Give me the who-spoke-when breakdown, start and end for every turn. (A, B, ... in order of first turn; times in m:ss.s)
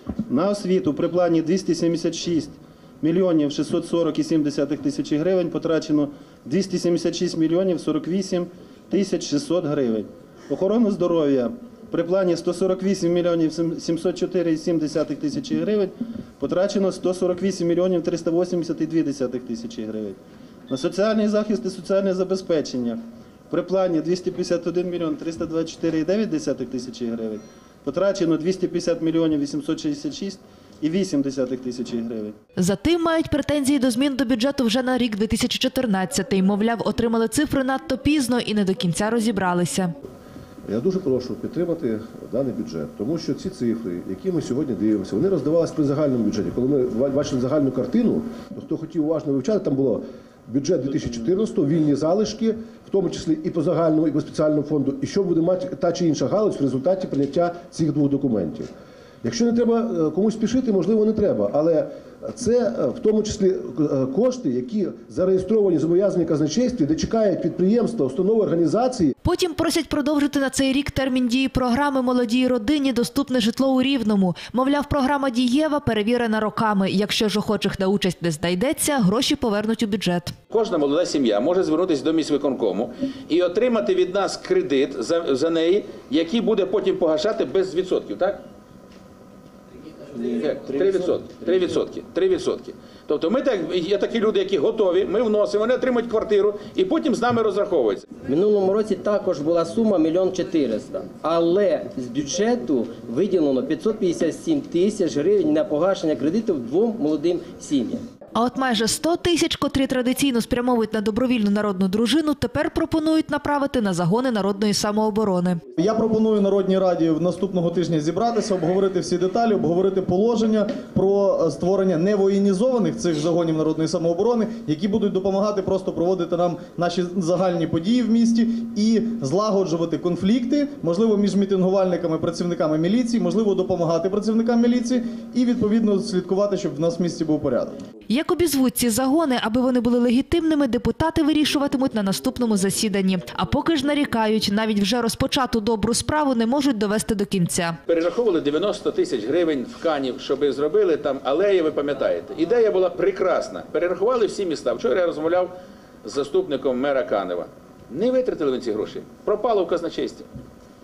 0:00.3-0:32.4 A
0:32.6-0:39.9 B
0:40.7-0:58.7 C
0:59.2-1:09.1 C
1:09.2-1:20.3 B
1:20.5-1:28.4 D
1:30.2-1:38.1 D
1:38.3-1:48.0 E
1:48.4-1:55.6 B
1:55.8-2:17.8 F
2:18.1-2:27.8 B
2:27.9-2:35.5 D
2:36.0-2:40.3 D